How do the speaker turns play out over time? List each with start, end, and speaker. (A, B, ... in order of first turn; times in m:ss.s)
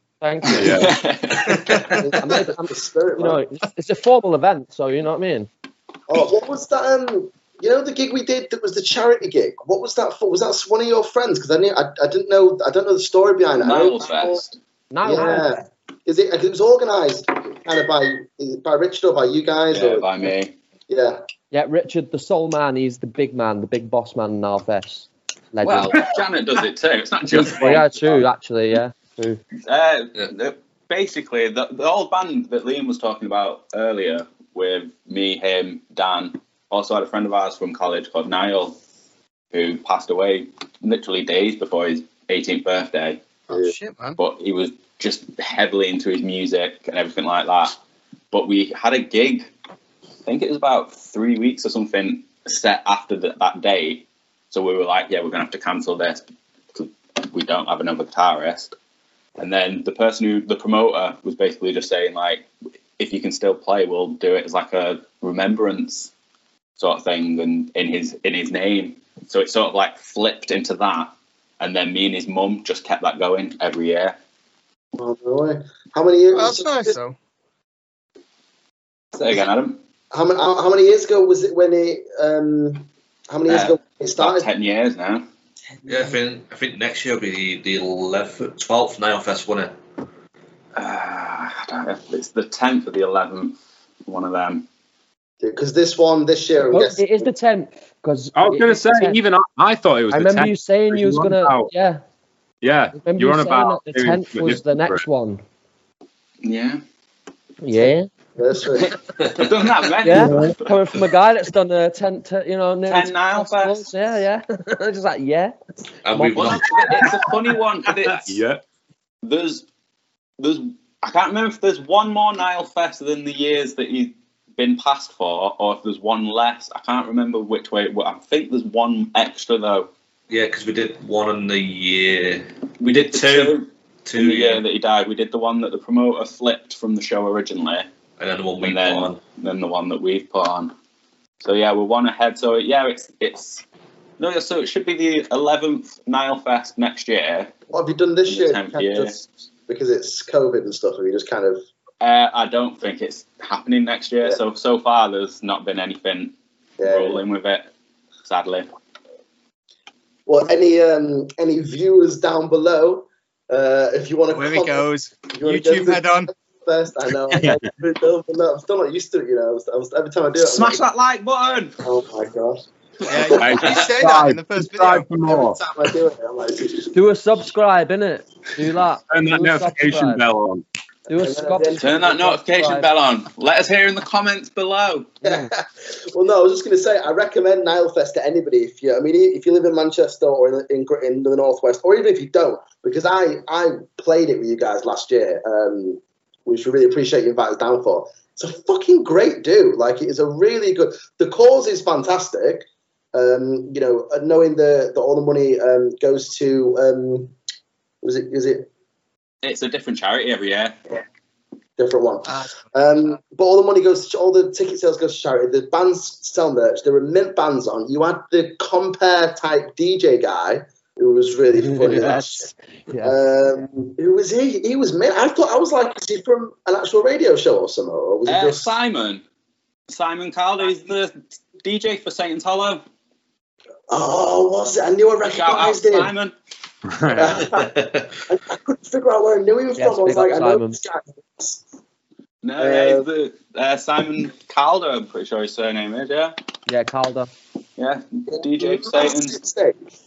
0:00.2-0:00.9 A
0:00.5-0:01.0 B
0:00.7-0:01.9 C
0:01.9-0:03.4 D
0:02.2-0:05.5 A
0:06.1-0:14.5 D
0:13.6-0:14.5 C
0:14.9-0:15.5 A
0:15.0-0:20.1 D
0:19.7-0:20.5 C
0:20.9-0:21.2 D
0:21.5-0:26.1 A
0:25.6-0:28.3 C
0:27.3-0:29.4 A
0:29.6-0:38.8 C
0:39.5-0:43.2 C
0:43.5-0:44.2 E
0:44.2-0:47.8 C
0:48.3-0:49.5 C
0:50.2-0:58.7 C
0:59.4-1:06.1 C
1:06.8-1:14.2 C
1:15.0-1:17.0 D
1:16.3-1:17.2 E
1:19.1-1:19.8 C
1:20.1-1:24.5 D
1:23.5-1:25.2 C
1:25.9-1:29.7 F
1:30.8-1:34.6 C
1:35.4-1:37.3 D
1:36.7-1:39.2 A
1:38.3-1:41.7 B
1:40.1-1:42.0 A
1:42.6-1:45.0 B
1:43.0-1:45.4 A
1:46.4-1:46.8 C
1:47.6-1:48.1 A
1:48.4-1:48.9 D
1:49.2-1:49.5 F
1:49.3-1:50.8 C
1:50.0-1:55.5 A
1:52.8-1:53.8 C
1:56.0-1:57.2 F
1:56.1-1:57.1 A
1:56.3-1:58.4 C
1:57.9-1:58.6 B
1:59.2-1:59.6 C
2:00.4-2:09.9 C
2:10.3-2:14.6 F
2:12.8-2:17.9 C
2:18.2-2:19.2 F
2:18.6-2:20.7 C
2:21.4-2:23.6 C
2:24.2-2:27.5 C
2:27.7-2:31.6 D
2:28.3-2:29.2 C
2:32.0-2:37.7 C
2:36.8-2:37.2 D
2:38.2-2:38.7 C
2:40.3-2:50.8 D
2:44.3-2:46.3 E
2:47.3-2:47.6 B
2:50.4-2:51.8 C
2:51.8-2:52.6 D
2:53.1-2:55.1 E
2:53.4-2:55.6 B
2:55.2-2:56.9 D
2:56.9-3:00.2 A
2:59.1-3:00.6 B
3:01.1-3:02.9 A
3:01.2-3:02.4 D
3:01.7-3:05.1 C
3:05.2-3:05.5 A
3:05.2-3:27.3 D
3:28.0-3:28.7 D
3:29.4-3:30.8 C
3:31.8-3:42.5 D
3:32.2-3:32.6 E
3:41.7-3:43.1 A
3:43.0-3:48.7 D
3:48.3-3:49.2 C
3:49.9-3:52.8 C
3:53.9-3:56.1 D
3:55.3-3:56.3 C
3:56.9-3:57.4 B
3:57.1-4:01.6 D
3:57.5-3:58.1 F
3:59.8-4:00.8 A
4:02.4-4:06.3 C
4:02.6-4:03.1 D
4:06.7-4:07.3 A
4:07.8-4:09.4 C
4:08.3-4:09.8 D